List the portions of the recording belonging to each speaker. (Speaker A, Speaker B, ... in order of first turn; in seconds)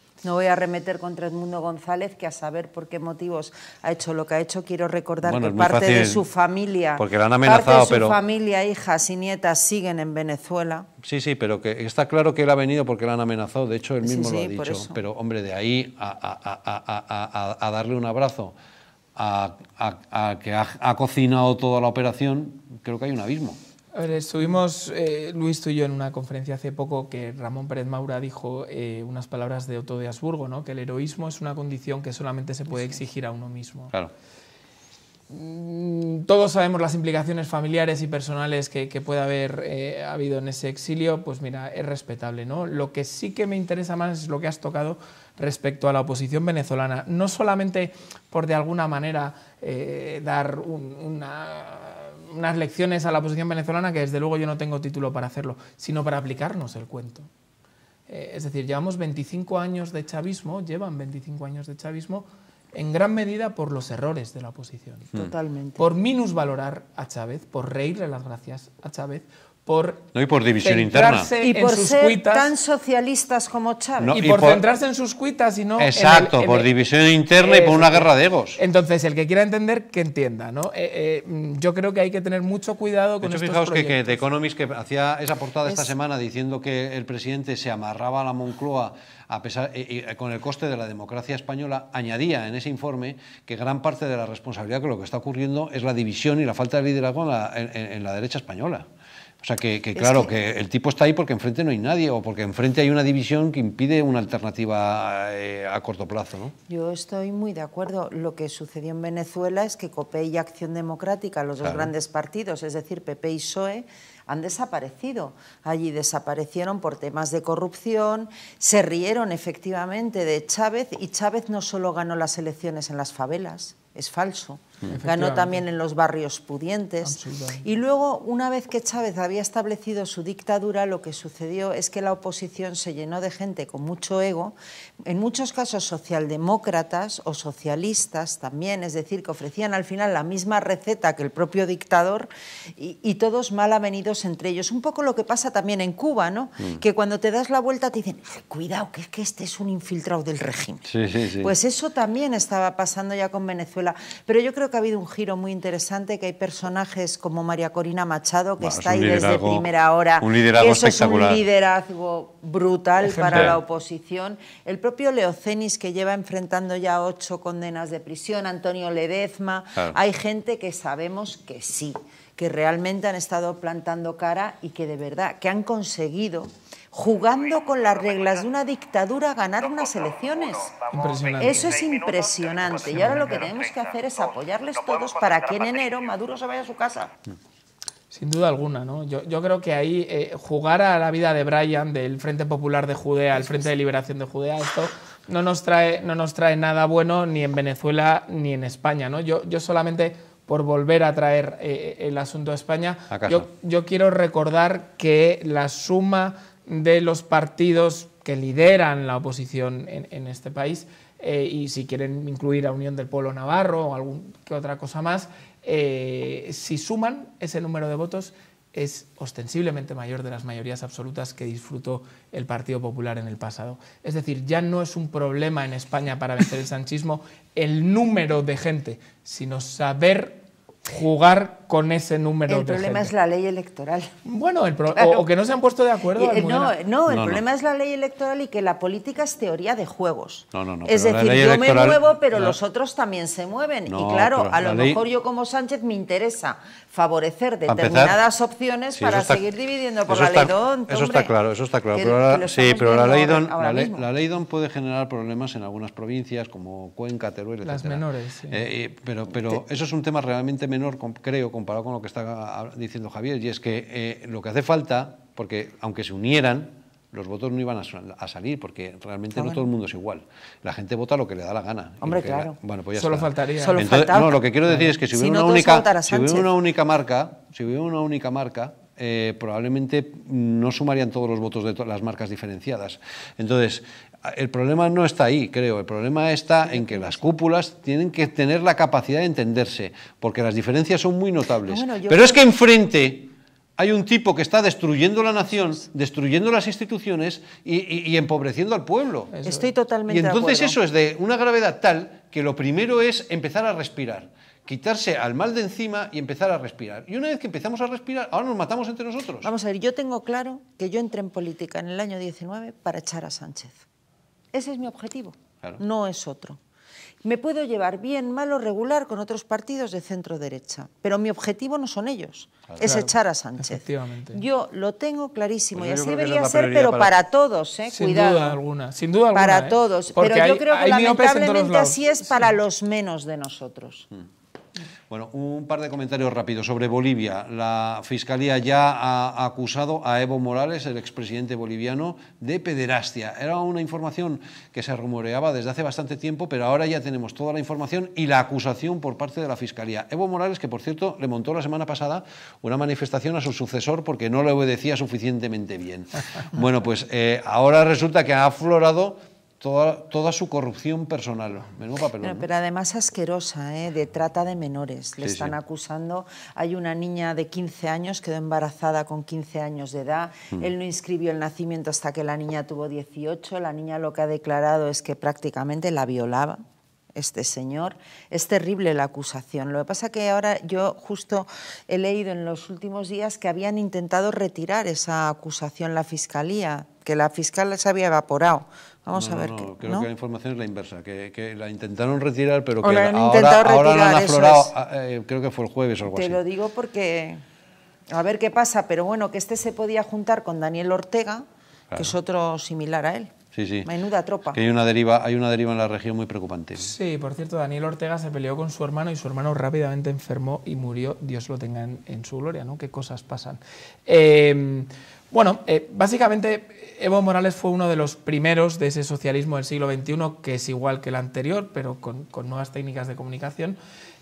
Speaker A: 0.2-10.9, 14.0-15.0, 65.1-65.8, 71.4-74.2, 100.0-100.3, 106.7-150.8, 151.4-180.8, 181.4-187.1, 232.5-234.1, 234.9-235.2, 236.1-251.3, 251.9-254.1, 269.3-269.6, 272.0-272.5, 273.6-274.4, 274.9-276.5, 286.6-287.2, 291.7-292.4, 299.4-300.8, 309.4-313.8, 314.5-316.6, 317.2-323.8, 324.3-328.6, 329.3-334.1, 362.2-376.6, 377.1-390.1, 392.8-394.7, 396.1-397.4, 398.1-404.6
Speaker B: 5.2-6.2, 7.0-8.2, 11.0-18.6, 19.1-23.6, 70.1-71.3, 74.0-74.6, 75.8-78.6, 83.2-98.9, 99.4-106.5, 111.6-111.9, 150.9-151.5, 158.6-161.4, 163.3-163.6, 203.1-203.5, 237.1-237.4, 240.5-242.6, 243.9-245.0, 247.7-248.2, 248.9-249.4, 250.1-299.3, 300.1-309.5, 322.7-322.9, 325.7-327.1, 335.1-362.5, 365.2-365.5, 389.1-396.4, 403.5-403.9, 404.5-406.9
Speaker C: 23.9-33.9, 35.3-57.3, 58.1-65.1, 65.8-70.1, 70.6-72.5, 74.1-76.7, 77.4-84.2, 124.9-125.6, 127.0-127.6, 163.0-163.6, 180.9-181.8, 182.9-183.3, 188.1-233.1, 234.2-236.7, 257.6-258.6, 272.9-273.8, 299.3-299.7, 322.8-324.4, 327.9-332.5, 406.8-423.8